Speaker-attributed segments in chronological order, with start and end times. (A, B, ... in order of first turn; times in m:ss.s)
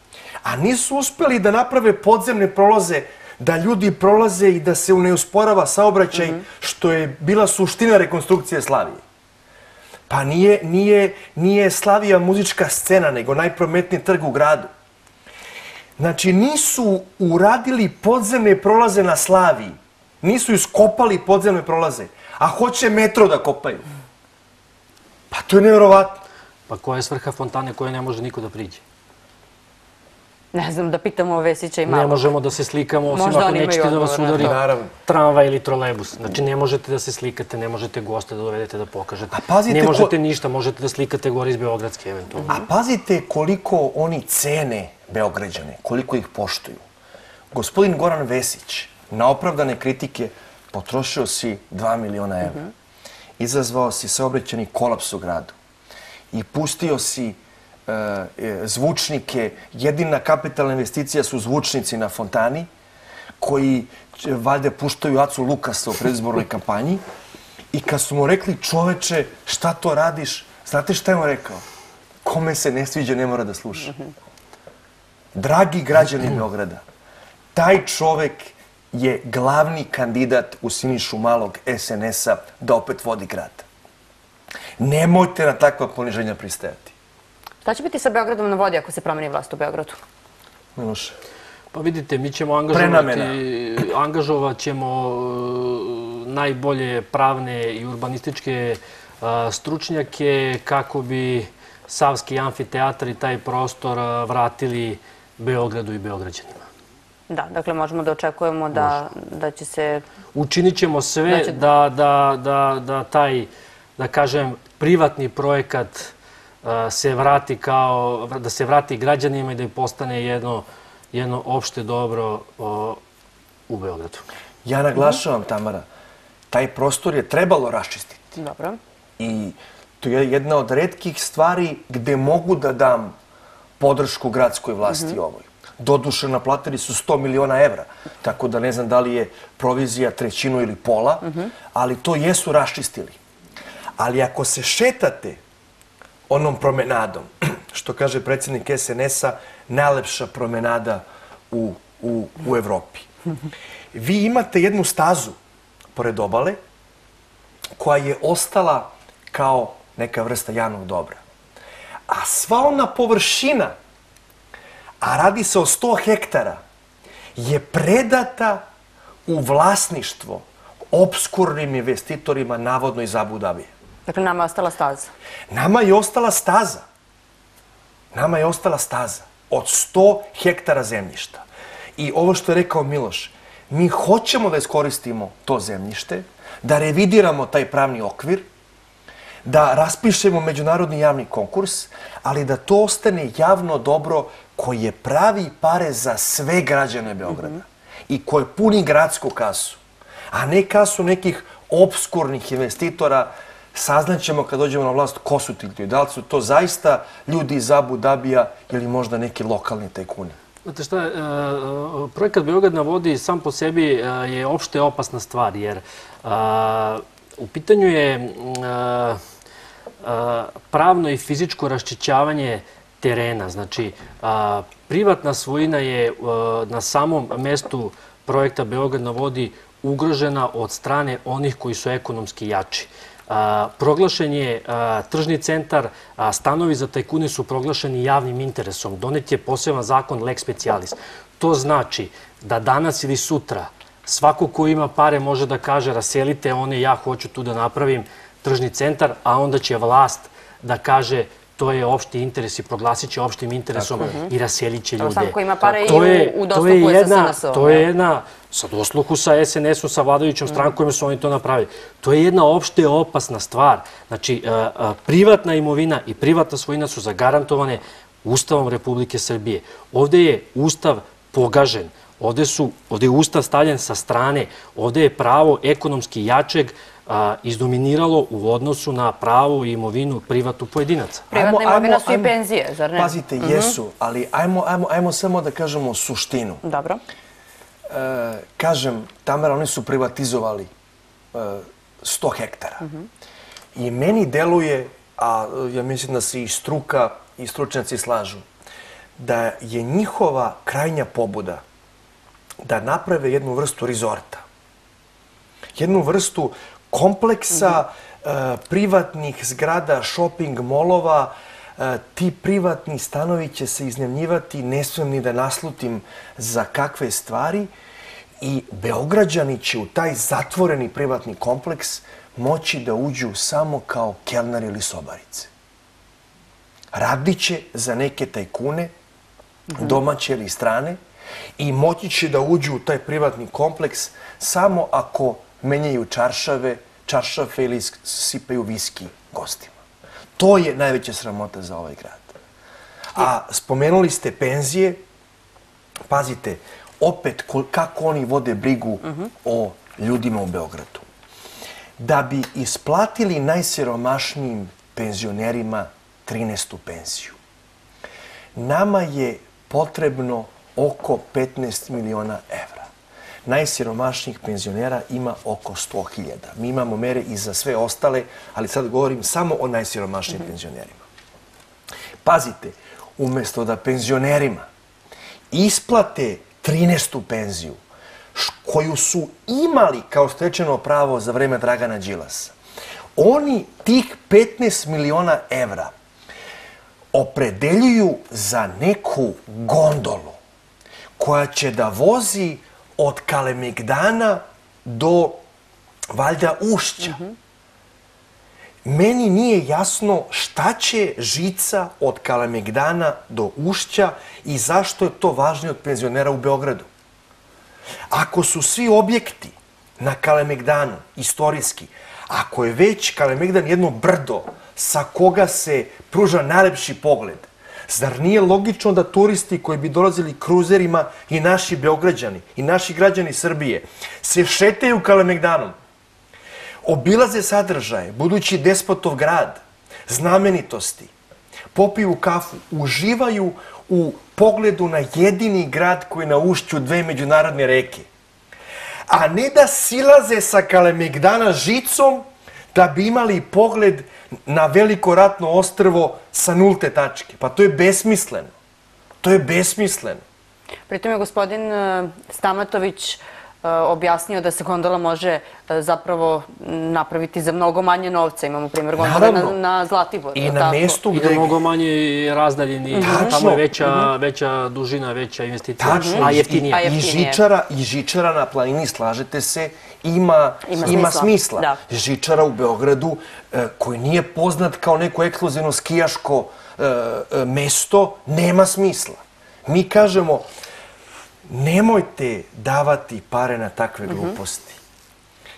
0:00.4-0:09.0 A
0:10.1-0:14.7 A
0:16.0-0:23.8 A
0:25.3-0:26.2 A
0:26.7-0:28.8 B
0:30.5-0:32.3 C
0:31.9-0:42.5 B
0:33.1-0:34.6 C
0:34.4-0:34.9 A
0:39.3-0:40.1 A
0:42.5-0:46.8 A
0:47.5-0:52.7 A
0:53.4-0:55.5 A
0:56.3-1:02.7 A
1:03.4-1:07.0 A
1:07.7-1:11.6 A
1:12.2-1:13.9 A
1:15.3-1:16.8 A
1:17.5-1:23.6 A
1:24.8-1:26.9 A
1:27.6-1:30.0 C
1:30.8-1:31.2 A
1:31.7-1:46.6 B
1:32.7-1:33.4 A
1:47.3-1:50.0 C
1:50.3-2:03.0 B
1:51.3-1:51.6 C
2:03.7-2:04.2 B
2:04.6-2:05.8 A
2:06.5-2:08.3 A
2:08.4-2:08.8 C
2:09.2-2:13.1 A
2:13.8-2:23.2 A
2:24.0-2:25.4 A
2:26.3-2:33.1 A
2:33.9-2:35.4 A
2:35.9-2:36.6 A
2:37.8-2:41.2 A
2:42.1-2:43.7 A
2:45.0-2:46.6 A
2:47.4-2:48.6 A
2:49.3-2:53.7 A
2:54.1-2:55.1 C
2:55.5-2:56.8 A
2:58.1-3:01.4 A
3:02.0-3:08.5 A
3:09.4-3:19.8 A
3:20.3-3:30.4 A
3:30.6-3:39.2 B
3:40.0-4:41.3 B
4:13.8-4:14.1 A
4:14.0-4:14.3 C
4:15.0-4:17.8 C
4:41.3-4:43.8 C
4:41.3-4:42.3 A
4:42.9-4:46.6 A
4:46.6-4:47.0 C
4:47.9-4:50.7 A
4:51.3-4:52.9 A
4:53.7-4:58.4 A
4:59.2-5:01.6 A
5:02.6-5:04.4 A
5:05.7-5:17.7 A
5:18.4-5:25.5 A
5:26.9-5:28.9 A
5:29.8-5:31.0 A
5:31.6-5:39.8 A
5:40.4-5:42.4 A
5:43.1-5:45.0 A
5:46.1-5:51.0 A
5:52.0-5:57.4 A
5:58.5-6:02.9 A
6:03.4-6:11.0 A
6:12.2-6:14.7 A
6:15.5-6:17.8 A
6:18.3-6:22.5 A
6:23.2-6:25.9 A
6:27.1-6:30.4 A
6:31.2-6:35.4 A
6:36.1-6:37.2 A
6:38.8-6:46.9 A
6:48.1-7:05.8 A
7:06.8-7:11.1 A
7:11.7-7:18.1 A
7:19.1-7:28.5 A
7:29.2-7:30.2 A
7:30.9-7:41.0 C
7:39.0-7:39.6 A
7:40.3-7:41.6 A
7:41.1-7:46.8 B
7:42.9-7:44.1 C
7:43.0-7:43.7 A
7:45.8-8:00.5 A
7:45.9-7:47.4 C
7:50.6-7:51.8 C
8:01.5-8:04.8 A